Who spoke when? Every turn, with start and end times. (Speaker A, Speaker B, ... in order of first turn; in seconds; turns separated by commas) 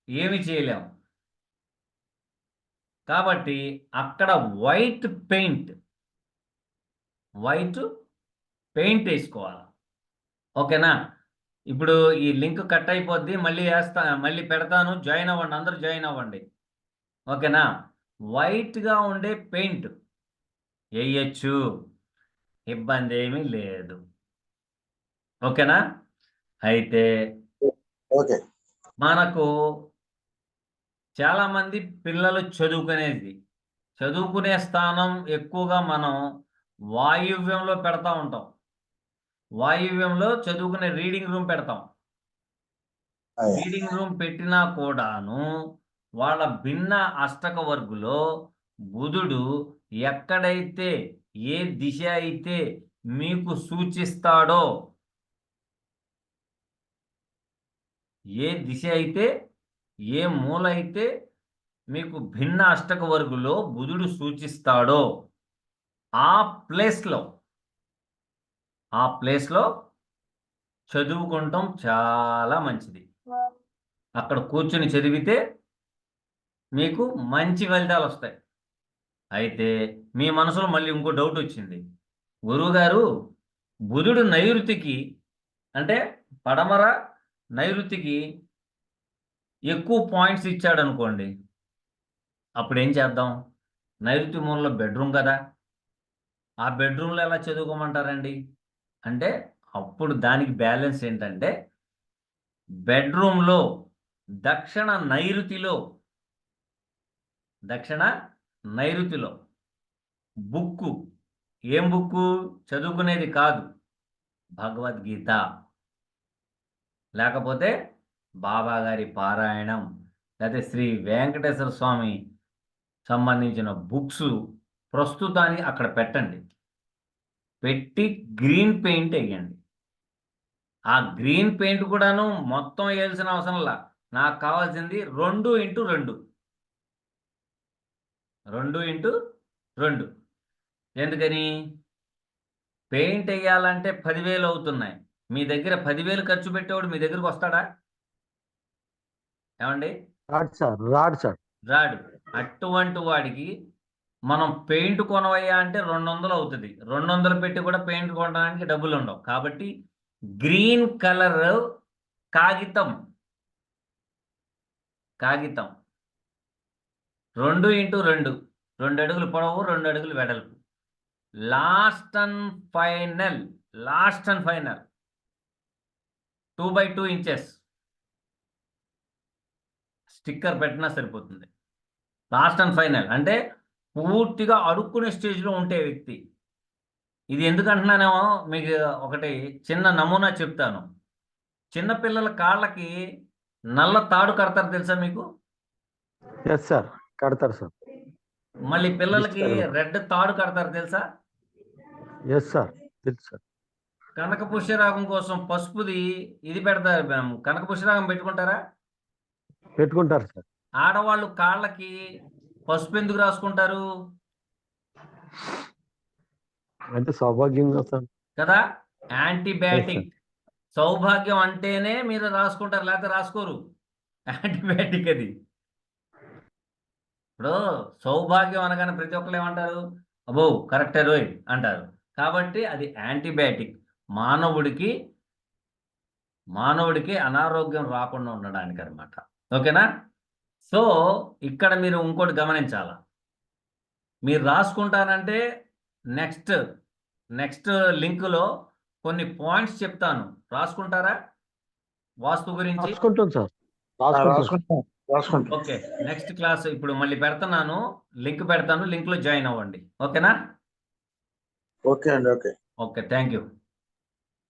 Speaker A: 0.2-0.8, Speaker A: 3.1-5.7, Speaker A: 7.5-7.8, Speaker A: 8.8-9.6, Speaker A: 10.6-10.9, Speaker A: 11.7-16.4, Speaker A: 17.3-17.6, Speaker A: 18.4-19.9, Speaker A: 21.0-21.6, Speaker A: 22.7-24.0, Speaker A: 25.5-25.8, Speaker A: 26.7-27.0, Speaker A: 29.0-29.4, Speaker A: 31.2-33.3, Speaker A: 34.0-36.1, Speaker A: 37.0-38.5, Speaker A: 39.6-41.8, Speaker B: 43.4-43.7, Speaker A: 43.5-45.4, Speaker A: 46.2-48.2, Speaker A: 48.9-49.4, Speaker A: 50.0-50.9, Speaker A: 51.5-52.6, Speaker A: 53.2-54.6, Speaker A: 58.4-59.3, Speaker A: 60.1-61.1, Speaker A: 61.9-65.0, Speaker A: 66.2-67.2, Speaker A: 69.0-69.7, Speaker A: 70.9-73.0, Speaker A: 74.2-75.4, Speaker A: 76.8-78.3, Speaker A: 79.4-81.8, Speaker A: 82.5-83.0, Speaker A: 83.9-85.0, Speaker A: 85.8-86.9, Speaker A: 87.6-88.2, Speaker A: 89.7-91.3, Speaker A: 92.6-93.3, Speaker A: 94.1-95.4, Speaker A: 96.7-98.3, Speaker A: 99.1-101.5, Speaker A: 102.9-103.6, Speaker A: 104.4-105.8, Speaker A: 107.7-108.1, Speaker A: 108.8-109.3, Speaker A: 110.5-110.9, Speaker A: 111.7-113.6, Speaker A: 114.6-115.4, Speaker A: 117.2-117.7, Speaker A: 118.4-119.8, Speaker A: 120.4-122.2, Speaker A: 123.1-124.3, Speaker A: 124.9-126.4, Speaker A: 127.6-129.6, Speaker A: 130.9-136.2, Speaker A: 138.6-139.1, Speaker A: 139.8-140.1, Speaker A: 141.0-141.5, Speaker A: 142.9-147.6, Speaker A: 149.6-149.9, Speaker C: 150.3-151.4, Speaker A: 151.7-153.5, Speaker A: 154.3-159.7, Speaker A: 160.4-161.6, Speaker A: 162.4-162.9, Speaker A: 165.2-165.7, Speaker A: 167.4-170.6, Speaker A: 171.5-174.8, Speaker A: 176.6-177.6, Speaker A: 180.1-181.5, Speaker A: 182.3-183.4, Speaker A: 184.0-186.2, Speaker A: 187.3-190.8, Speaker A: 191.7-192.9, Speaker A: 193.8-195.2, Speaker C: 196.4-197.7, Speaker A: 198.7-201.0, Speaker C: 199.1-199.7, Speaker C: 202.3-203.4, Speaker A: 204.2-208.6, Speaker C: 209.8-210.4, Speaker A: 210.8-211.9, Speaker A: 212.7-213.8, Speaker C: 216.9-218.1, Speaker A: 219.2-220.1, Speaker C: 219.7-220.1, Speaker A: 220.8-223.6, Speaker A: 224.3-225.3, Speaker A: 227.4-229.8, Speaker A: 230.3-234.9, Speaker A: 236.6-239.8, Speaker A: 241.5-242.9, Speaker A: 244.2-245.4, Speaker A: 246.2-246.6, Speaker A: 247.4-248.5, Speaker A: 249.0-251.1, Speaker A: 252.2-253.0, Speaker C: 252.8-254.6, Speaker B: 254.1-255.6, Speaker A: 255.5-260.3, Speaker B: 261.9-262.5, Speaker A: 262.8-263.4